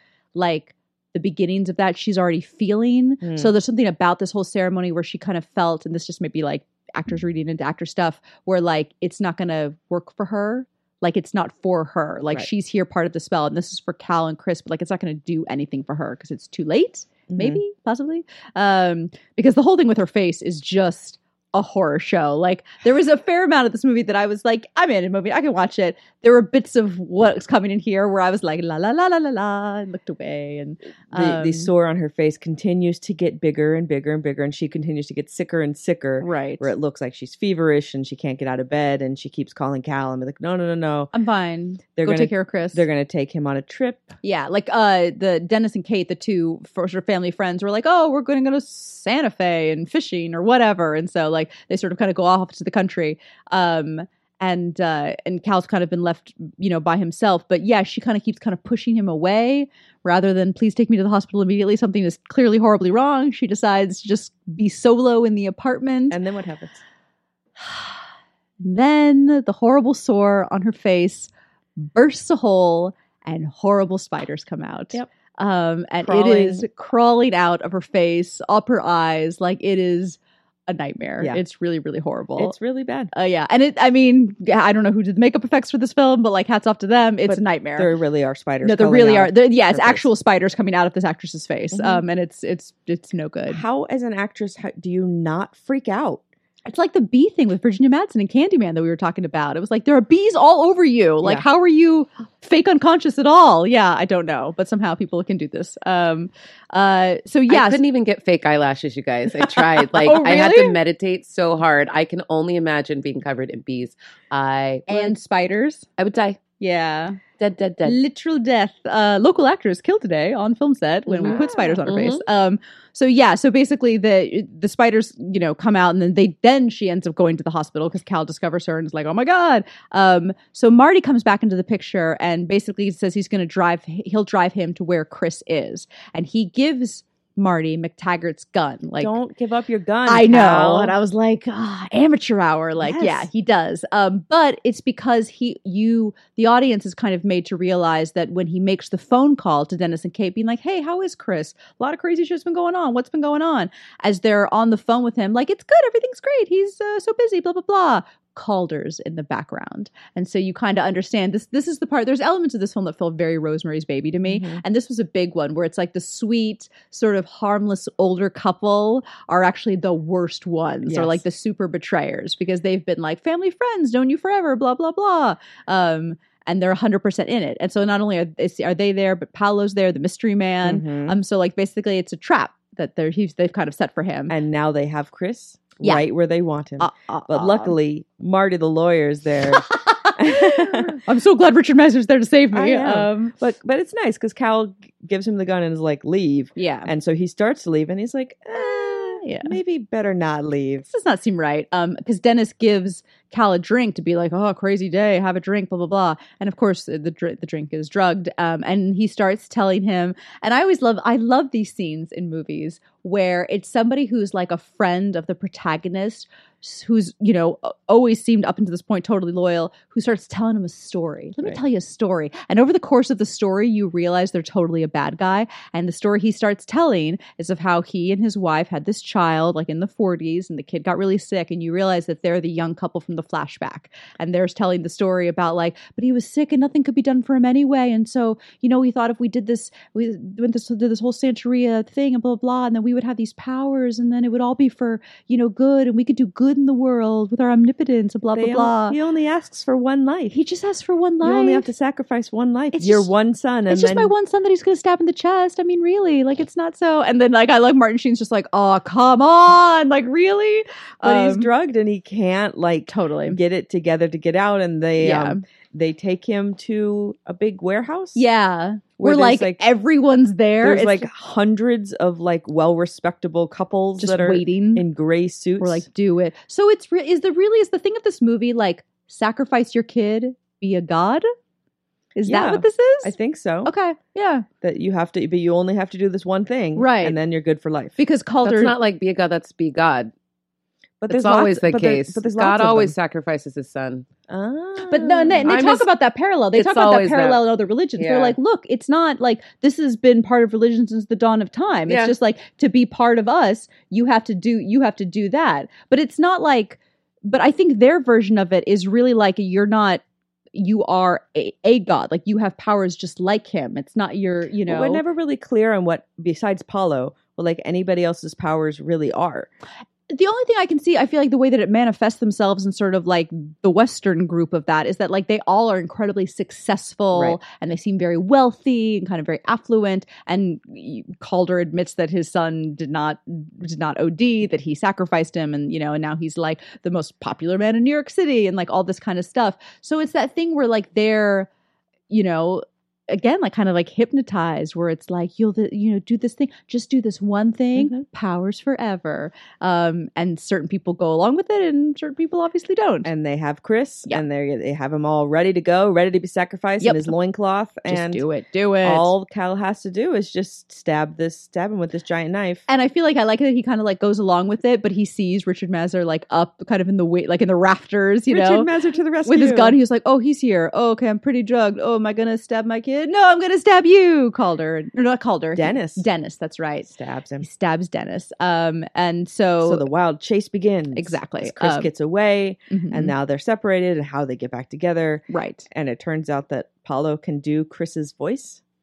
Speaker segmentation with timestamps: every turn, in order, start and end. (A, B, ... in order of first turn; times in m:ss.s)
0:00.4-0:31.7 A
0:03.2-0:03.5 B
0:17.3-0:17.6 B
0:31.1-0:41.1 B
0:36.2-0:36.7 A
0:41.1-0:42.8 A
0:42.0-0:44.2 B
0:44.2-1:06.2 A
1:06.1-1:06.8 B
1:07.6-1:08.0 A
1:08.6-1:22.6 A
1:16.0-1:16.7 B
1:22.4-1:23.1 B
1:23.1-1:27.9 A
1:27.3-1:30.1 B
1:28.6-1:33.6 A
1:31.7-1:32.0 B
1:33.5-1:36.2 B
1:36.7-1:47.8 A
1:47.5-1:55.2 C
1:50.0-1:50.8 A
1:54.9-1:55.9 A
1:56.0-1:56.4 C
1:56.6-1:57.2 A
1:57.4-1:58.0 C
1:57.8-2:19.2 A
2:01.1-2:02.2 C
2:01.3-2:01.8 B
2:19.0-2:21.0 B
2:20.1-3:04.4 A
2:22.8-2:23.3 B
2:44.3-2:44.6 B
2:50.9-2:51.2 B
3:00.6-3:01.2 B
3:04.3-3:11.0 B
3:06.8-3:07.7 A
3:09.5-3:13.3 A
3:12.5-3:20.9 B
3:16.6-3:16.9 A
3:18.6-3:19.6 A
3:20.9-4:09.0 A
4:08.4-4:10.4 B
4:10.3-4:11.7 A
4:11.2-4:14.1 B
4:12.7-4:13.1 A
4:13.7-4:21.5 A
4:21.0-4:28.2 B
4:22.9-4:23.4 A
4:25.0-4:25.4 A
4:28.2-4:31.1 A
4:29.0-4:29.6 B
4:30.6-4:35.8 B
4:34.0-4:34.8 A
4:35.6-4:41.2 A
4:42.2-4:43.1 A
4:42.3-4:43.7 B
4:43.6-4:44.5 A
4:44.6-4:48.0 B
4:46.8-4:47.2 A
4:48.0-4:48.8 A
4:48.4-4:50.1 C
4:51.0-4:53.0 B
4:51.1-4:54.1 C
4:54.3-4:55.6 B
4:54.8-5:10.0 A
4:55.4-4:55.9 C
4:56.5-4:57.4 C
4:58.0-4:58.4 C
5:01.9-5:02.1 C
5:10.5-5:15.0 A
5:14.7-5:19.5 B
5:20.1-5:41.5 A
5:42.1-5:53.1 A
5:47.8-5:48.0 B
5:53.0-5:58.2 B
5:56.8-5:57.1 A
5:57.9-5:59.1 A
5:58.8-6:02.7 B
6:02.7-6:08.7 A
6:08.3-6:09.8 B
6:09.2-6:19.9 A
6:15.6-6:16.0 B
6:16.9-6:17.5 B
6:19.6-6:28.6 B
6:21.0-6:21.9 A
6:22.7-6:23.1 A
6:25.3-6:25.7 A